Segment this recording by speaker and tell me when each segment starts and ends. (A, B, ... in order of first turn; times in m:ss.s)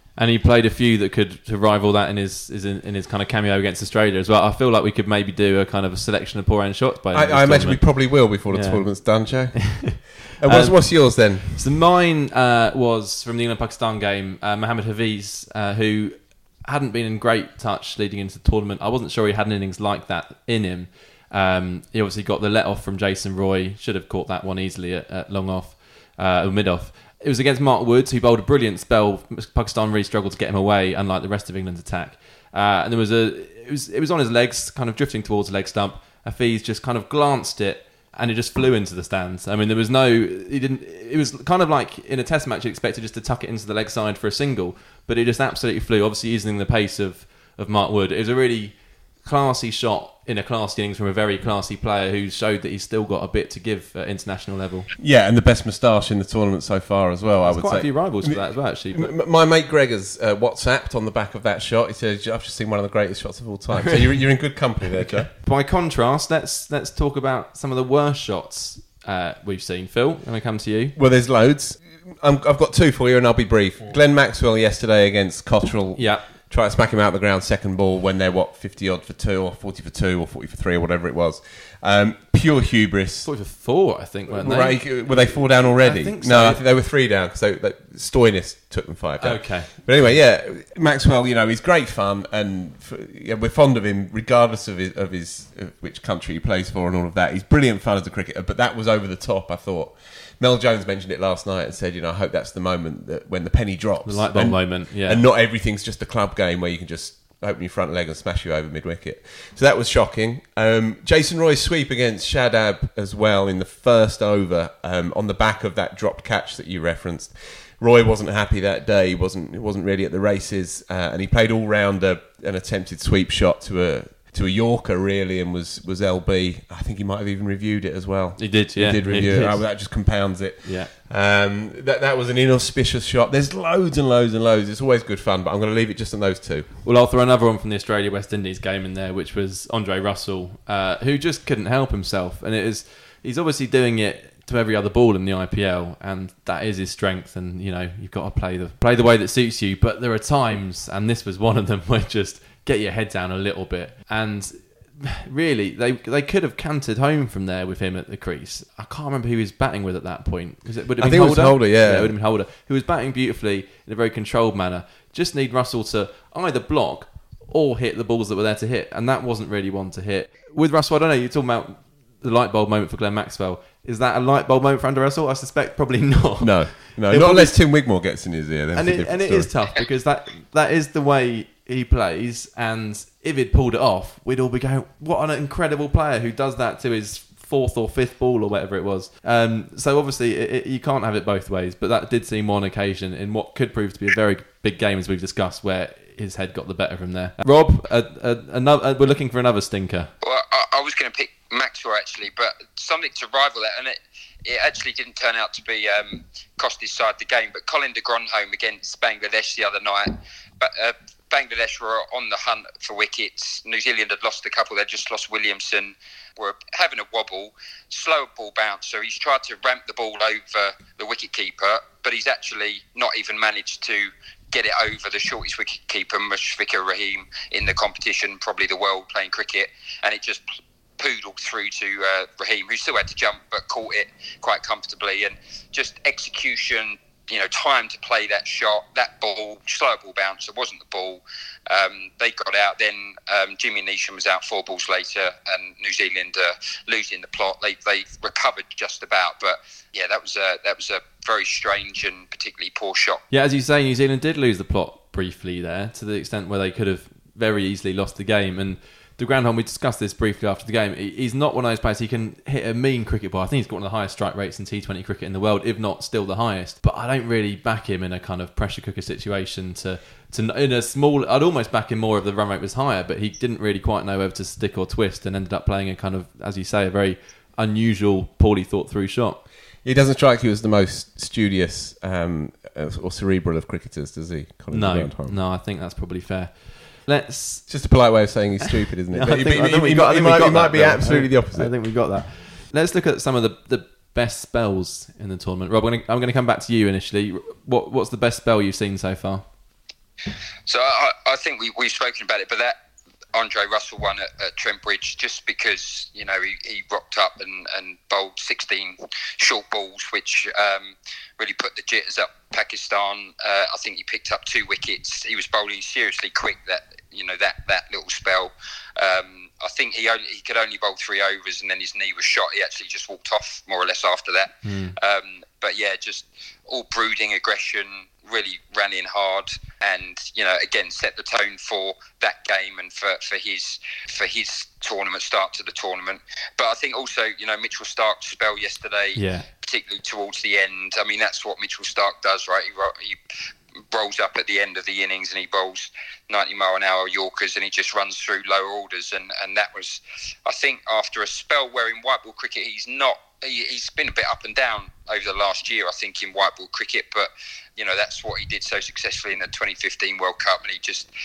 0:00.2-0:09.7 A
0:07.1-0:11.6 B
0:10.4-0:54.9 A
0:55.0-1:05.3 B
0:57.4-0:59.1 A
1:03.7-1:04.3 A
1:05.0-1:11.0 A
1:11.0-1:23.3 B
1:16.0-1:16.2 A
1:23.2-1:26.6 A
1:24.3-2:16.7 B
1:29.2-1:30.1 A
1:44.0-1:45.2 A
2:08.4-2:10.9 A
2:16.8-2:57.6 A
2:41.0-2:42.1 B
2:56.4-2:59.5 B
2:58.7-3:20.1 A
3:20.2-3:50.4 C
3:51.0-4:13.2 C
4:13.3-4:39.4 A
4:39.8-4:45.4 B
4:44.7-4:48.0 A
4:47.7-4:51.7 B
4:49.1-4:59.5 A
5:00.7-5:02.8 C
5:03.3-5:43.2 C
5:24.6-5:25.0 A
5:39.2-5:39.4 A
5:43.9-6:01.1 C